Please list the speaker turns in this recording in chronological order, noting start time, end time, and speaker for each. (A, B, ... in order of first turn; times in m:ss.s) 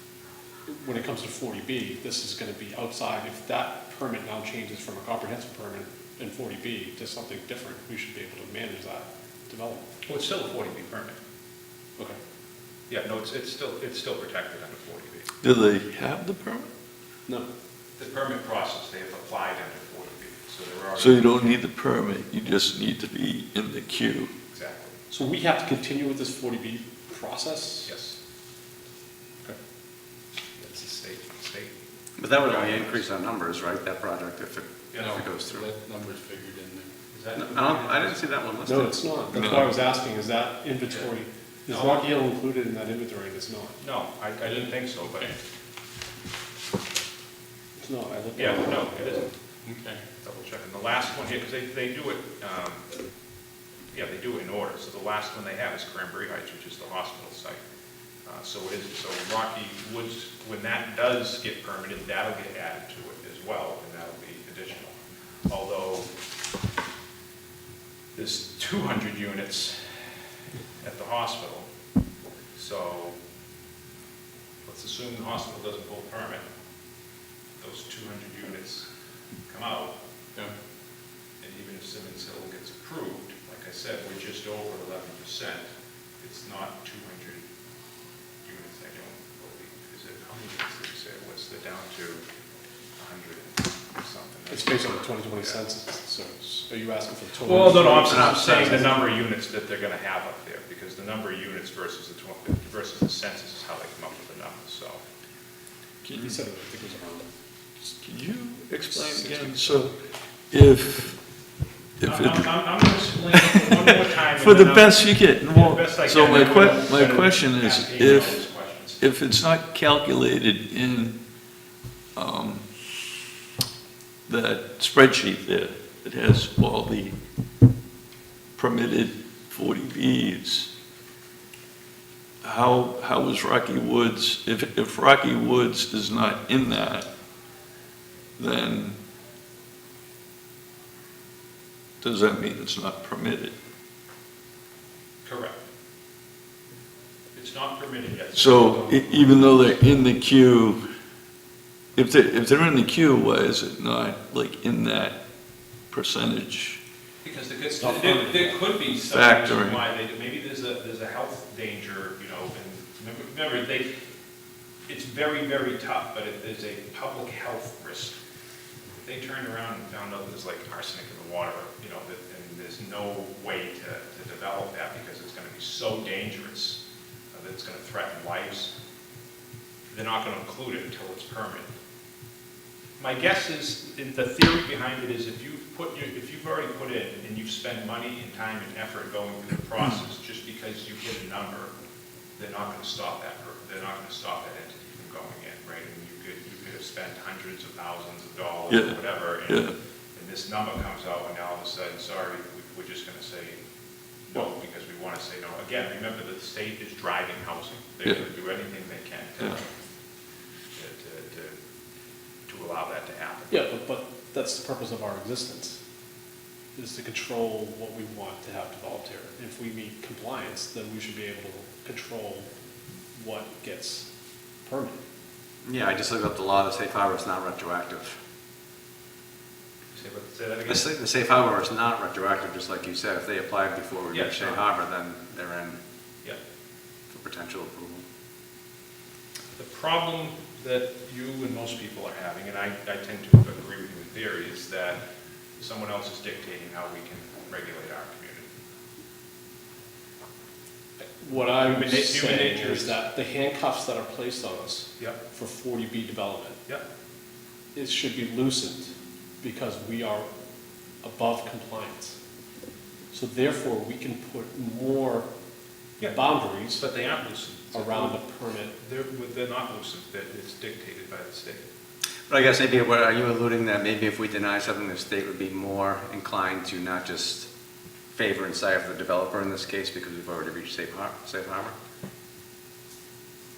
0:00.6-0:09.9 A
0:10.1-0:11.2 B
0:12.9-0:15.3 B
0:15.4-0:16.7 C
0:18.0-0:21.6 B
0:21.0-0:24.3 C
0:24.5-0:24.9 B
0:25.1-0:27.9 A
0:27.8-0:28.2 B
0:30.6-0:31.7 B
0:32.2-0:35.6 D
0:32.3-0:33.1 B
0:34.9-0:35.2 B
0:35.0-0:36.9 E
0:37.1-0:38.2 B
0:37.3-0:39.0 D
0:38.7-0:43.8 A
0:39.3-0:39.6 C
0:41.7-0:42.1 B
0:43.8-0:45.3 B
0:47.8-0:48.8 A
0:48.4-0:49.3 B
0:49.6-0:50.0 E
0:50.2-0:52.8 B
0:53.9-0:57.6 B
0:58.2-1:06.1 B
1:08.1-1:10.0 B
1:10.8-1:11.7 B
1:12.5-1:13.2 B
1:14.6-1:16.4 B
1:17.6-1:18.9 B
1:19.5-1:19.9 B
1:21.4-1:25.7 B
1:26.2-1:27.4 B
1:28.4-1:32.2 B
1:33.0-1:35.6 B
1:34.5-1:39.0 A
1:37.4-1:45.0 B
1:38.1-1:38.7 D
1:46.0-1:46.4 C
1:46.2-1:47.3 A
1:47.8-1:49.9 C
1:49.0-1:49.9 A
1:50.5-1:51.2 C
1:52.0-1:52.5 C
1:52.0-1:59.0 B
1:53.3-1:53.8 C
1:54.4-1:58.4 C
1:59.0-2:01.2 C
2:02.2-2:02.6 C
2:04.3-2:07.2 C
2:08.6-2:10.7 C
2:12.4-2:17.1 C
2:18.4-2:19.0 C
2:22.0-2:23.5 C
2:25.2-2:25.6 B
2:27.3-2:29.8 B
2:28.3-2:30.8 C
2:32.0-2:35.2 C
2:35.9-2:36.8 C
2:37.2-2:43.9 B
2:37.8-2:38.6 A
2:39.0-2:39.8 C
2:44.9-2:48.2 B
2:49.0-2:56.8 B
2:57.3-2:58.7 B
2:59.9-3:01.7 B
3:03.0-3:11.7 B
3:12.4-3:23.6 B
3:18.7-3:19.7 C
3:24.3-3:29.7 B
3:30.7-3:31.6 B
3:32.5-3:33.6 B
3:33.5-3:35.8 A
3:36.7-3:42.5 A
3:43.1-3:44.1 A
3:44.6-3:45.0 A
3:45.6-3:48.2 D
3:49.9-3:50.9 B
3:50.7-3:55.8 D
3:54.1-3:54.6 B
3:57.1-3:58.0 D
3:59.5-4:05.0 B
4:05.6-4:08.5 B
4:11.2-4:16.6 A
4:11.6-4:13.0 B
4:17.7-4:20.3 A
4:21.0-4:22.2 A
4:23.1-4:25.3 A
4:26.1-4:26.9 A
4:26.7-4:28.2 B
4:27.7-4:28.8 A
4:28.8-4:31.6 B
4:32.3-4:37.5 D
4:38.1-4:41.7 D